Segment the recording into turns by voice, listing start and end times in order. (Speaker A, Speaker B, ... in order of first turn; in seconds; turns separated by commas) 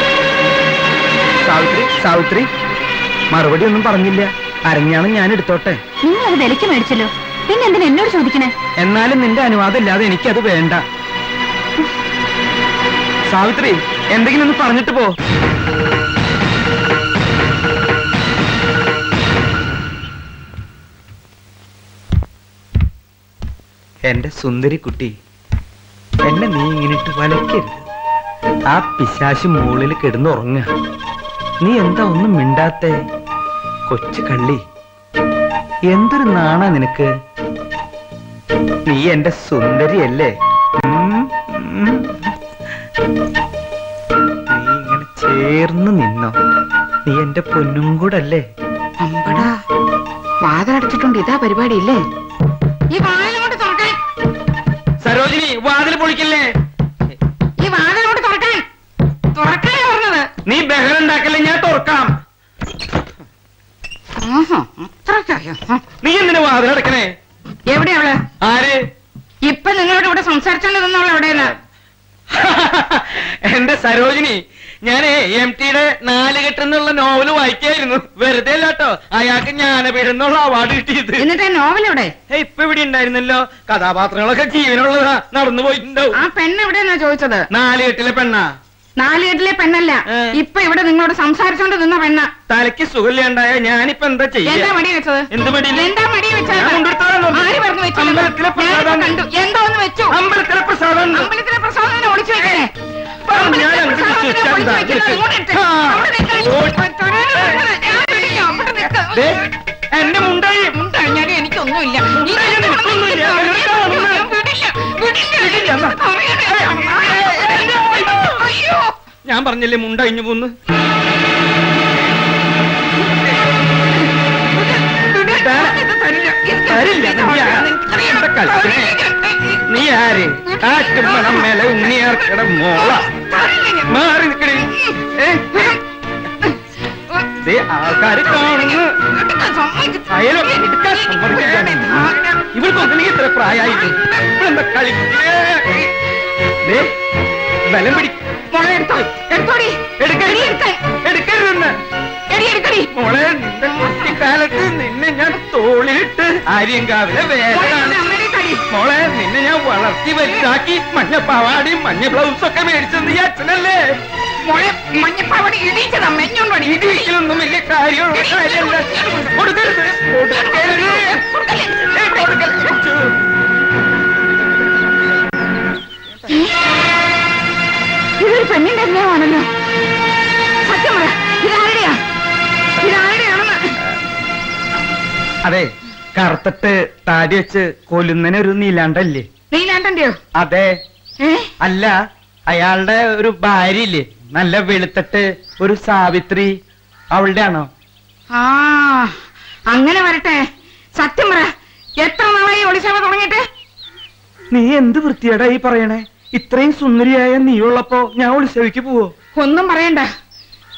Speaker A: 1.4-2.5, Speaker A: 3.3-5.8, Speaker B: 6.0-8.5, Speaker A: 8.8-10.8, Speaker A: 13.3-15.1, Speaker A: 24.0-25.1, Speaker A: 26.2-27.8, Speaker A: 28.7-30.7, Speaker A: 31.6-33.0, Speaker A: 33.9-34.6, Speaker A: 35.9-37.1, Speaker A: 38.9-40.3, Speaker A: 40.8-42.0, Speaker A: 44.5-46.4, Speaker A: 47.0-48.5, Speaker C: 49.0-49.5, Speaker C: 50.4-52.0, Speaker C: 52.9-54.0, Speaker A: 55.0-56.5, Speaker C: 57.6-58.6, Speaker C: 59.3-60.3, Speaker A: 60.5-62.1, Speaker C: 64.2-65.8, Speaker A: 66.0-67.1, Speaker C: 67.7-68.2, Speaker A: 68.4-68.8, Speaker C: 69.4-71.5, Speaker A: 72.3-81.3, Speaker C: 81.2-82.1, Speaker A: 82.3-86.2, Speaker C: 86.1-87.5, Speaker A: 87.5-88.4, Speaker C: 89.0-92.3, Speaker A: 92.5-94.7, Speaker C: 94.4-100.2, Speaker A: 95.3-95.9, Speaker A: 96.5-99.2, Speaker A: 100.1-101.3, Speaker C: 101.1-102.7, Speaker C: 103.3-109.4, Speaker A: 103.3-106.8, Speaker A: 107.3-107.6, Speaker A: 109.1-110.7, Speaker C: 110.7-118.9, Speaker A: 112.2-114.3, Speaker A: 115.3-116.0, Speaker A: 116.5-118.4, Speaker A: 119.2-120.5, Speaker C: 124.5-129.6, Speaker A: 125.2-125.8, Speaker A: 126.7-128.9, Speaker A: 129.7-133.1, Speaker C: 130.5-133.9, Speaker A: 133.9-135.7, Speaker C: 134.6-135.0, Speaker C: 135.5-135.8, Speaker A: 137.4-138.9, Speaker C: 138.7-142.5, Speaker A: 140.1-142.0, Speaker A: 142.5-145.9, Speaker C: 143.6-144.0, Speaker A: 146.6-146.9, Speaker A: 147.7-148.2, Speaker C: 148.5-150.8, Speaker A: 150.0-151.7, Speaker C: 152.3-152.9, Speaker A: 152.9-158.0, Speaker C: 157.5-158.6, Speaker A: 158.7-163.8, Speaker C: 160.2-160.5, Speaker C: 164.4-167.1, Speaker A: 166.6-171.2, Speaker C: 168.1-172.8, Speaker A: 171.9-173.1, Speaker C: 178.2-179.5, Speaker C: 180.6-182.0, Speaker C: 182.8-183.7, Speaker A: 185.4-189.3, Speaker C: 189.5-190.2, Speaker A: 190.3-190.7, Speaker C: 191.2-191.5, Speaker A: 191.6-191.9, Speaker A: 192.5-196.5, Speaker A: 197.1-197.7, Speaker C: 198.3-199.2, Speaker C: 199.7-200.4, Speaker C: 201.0-203.4, Speaker A: 204.5-209.1, Speaker C: 209.4-210.1